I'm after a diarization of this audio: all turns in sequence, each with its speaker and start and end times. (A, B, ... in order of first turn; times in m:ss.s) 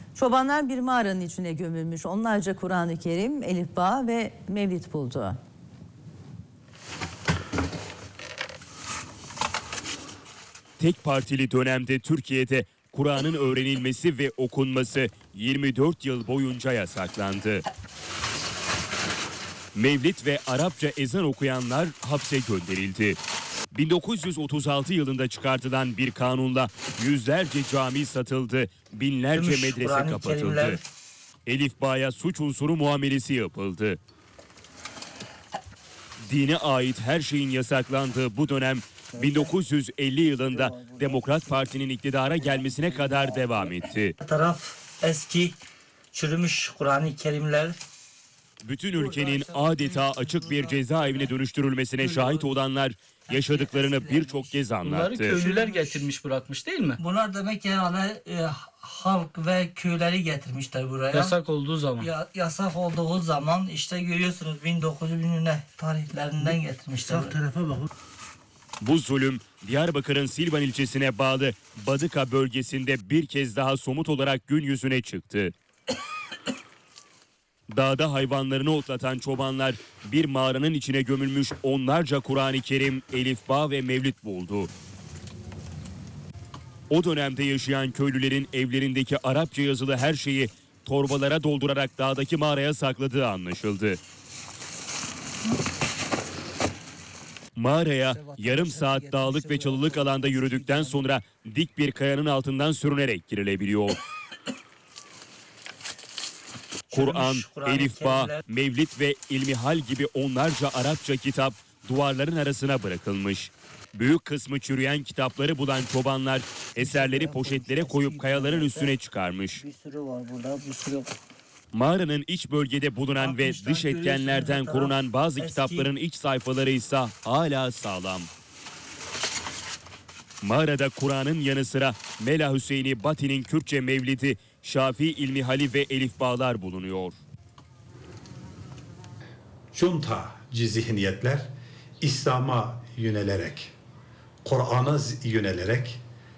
0:00.1-0:05.4 A
0:10.8-0:17.6 B
0:19.7-0:23.2 B
0:23.7-0:30.8 B
0:29.3-0:30.8 C
0:31.4-0:34.0 B
0:36.2-0:44.2 B
0:39.1-0:39.6 C
0:40.3-0:41.4 C
0:44.2-0:45.6 C
0:46.1-0:47.8 C
0:48.6-0:55.4 B
0:49.0-0:51.3 C
0:52.0-0:52.5 C
0:53.3-0:54.6 C
0:54.8-0:57.0 D
0:55.2-0:56.1 C
0:57.0-1:01.4 C
1:01.1-1:02.1 D
1:02.0-1:07.5 C
1:08.8-1:15.5 B
1:17.7-1:24.7 B
1:26.9-1:34.0 B
1:37.6-1:44.0 B
1:38.4-1:41.1 C
1:46.9-1:48.4 C
1:46.9-1:59.6 B
1:56.8-1:59.0 C
1:59.6-2:01.2 C
2:01.7-2:08.3 B
2:03.2-2:05.9 C
2:10.4-2:17.2 B
2:19.7-2:21.5 E
2:22.0-2:23.7 E
2:24.4-2:26.0 E